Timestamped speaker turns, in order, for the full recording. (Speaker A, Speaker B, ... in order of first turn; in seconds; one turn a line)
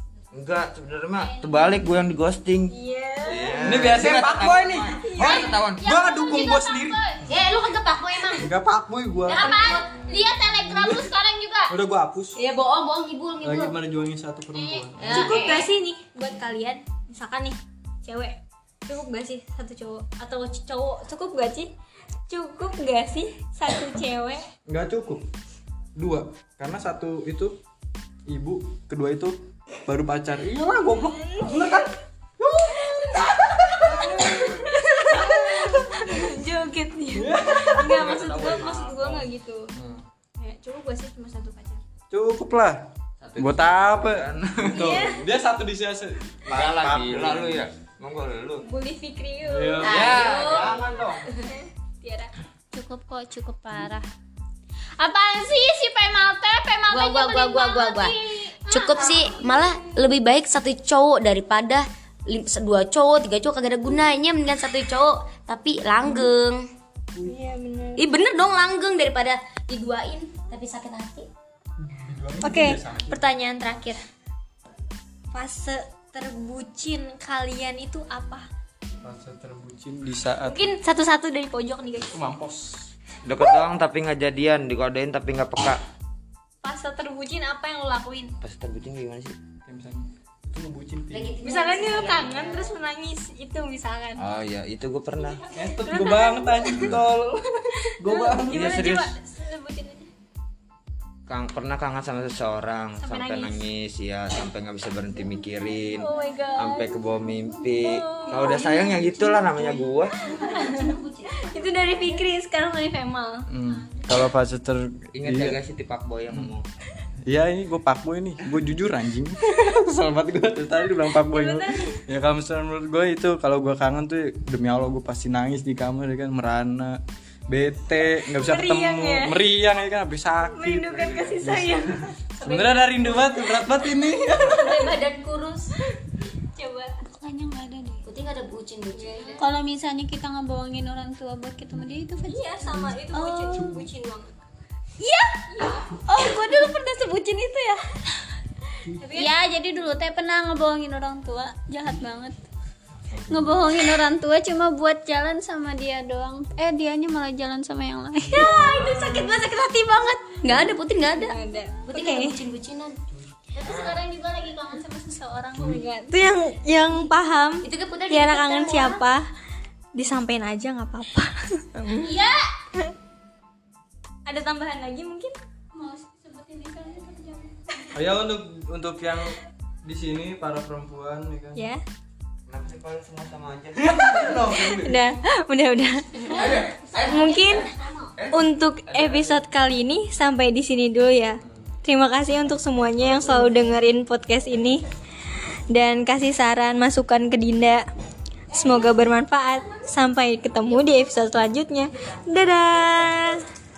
Speaker A: 0.3-5.9
Speaker B: 1.2-1.8
Speaker C: 2.7-3.9
Speaker D: 3.6-7.1
Speaker C: 4.9-5.5
Speaker B: 5.2-7.2
Speaker E: 7.2-8.5
Speaker D: 8.3-9.6
Speaker E: 9.3-9.9
Speaker B: 9.3-11.7
Speaker D: 10.7-11.1
Speaker D: 11.7-12.4
Speaker E: 12.3-13.8
Speaker D: 13.4-15.3
Speaker B: 14.5-15.0
Speaker E: 15.0-15.7
Speaker C: 15.1-21.7
Speaker C: 22.3-24.4
Speaker D: 24.7-25.3
Speaker D: 25.9-27.6
Speaker D: 28.2-34.5
Speaker C: 30.9-31.8
Speaker C: 32.9-39.8
Speaker D: 35.1-35.8
Speaker D: 37.1-38.1
Speaker A: 37.8-39.2
Speaker D: 39.7-40.0
Speaker C: 40.4-41.8
Speaker D: 42.1-47.6
Speaker A: 43.2-45.0
Speaker C: 44.7-45.2
Speaker A: 46.5-48.6
Speaker C: 48.6-50.9
Speaker D: 49.4-50.3
Speaker E: 49.8-50.8
Speaker A: 49.8-51.4
Speaker B: 52.0-54.1
Speaker B: 55.0-59.4
Speaker E: 56.9-66.7
Speaker C: 67.2-68.1
Speaker E: 68.0-71.3
Speaker D: 71.8-73.2
Speaker C: 72.4-74.0
Speaker C: 75.3-78.5
Speaker D: 79.0-80.7
Speaker C: 80.4-82.2
Speaker D: 82.1-82.9
Speaker A: 83.2-85.8
Speaker C: 86.6-88.3
Speaker A: 88.4-89.3
Speaker D: 89.7-91.4
Speaker E: 91.1-92.8
Speaker C: 91.4-94.3
Speaker A: 94.2-95.4
Speaker D: 95.5-98.8
Speaker C: 95.8-97.0
Speaker A: 96.7-97.0
Speaker C: 97.9-100.1
Speaker A: 98.5-99.1
Speaker A: 101.3-110.2
Speaker C: 103.0-103.7
Speaker C: 105.9-107.0
Speaker C: 107.7-109.0
Speaker C: 110.2-113.5
Speaker E: 110.3-111.7
Speaker D: 113.5-115.6
Speaker B: 113.9-114.2
Speaker A: 115.2-116.7
Speaker D: 117.2-131.6
Speaker C: 121.2-122.0
Speaker C: 128.3-129.4
Speaker C: 130.4-133.5
Speaker D: 132.4-135.0
Speaker E: 134.4-135.7
Speaker C: 136.5-136.9
Speaker B: 137.0-138.0
Speaker E: 138.0-139.4
Speaker C: 138.9-139.4
Speaker B: 139.4-143.9
Speaker C: 142.3-144.4
Speaker C: 145.5-147.8
Speaker B: 145.9-147.7
Speaker C: 148.8-149.3
Speaker B: 149.1-152.4
Speaker B: 153.2-158.5
Speaker C: 158.3-160.6
Speaker E: 158.6-159.1
Speaker A: 158.7-159.2
Speaker E: 160.4-163.0
Speaker C: 161.2-162.4
Speaker B: 163.5-165.8
Speaker A: 163.6-164.0
Speaker C: 165.6-169.3
Speaker E: 167.6-169.0
Speaker C: 169.9-172.1
Speaker B: 172.0-172.4
Speaker C: 174.2-175.3
Speaker B: 175.7-177.7
Speaker D: 177.9-181.6
Speaker C: 181.5-181.8
Speaker A: 182.5-184.2
Speaker D: 183.9-185.0
Speaker C: 184.2-187.7
Speaker A: 186.4-187.5
Speaker B: 186.9-188.1
Speaker A: 188.2-189.4
Speaker C: 188.3-194.8
Speaker C: 195.7-197.8
Speaker C: 198.5-203.4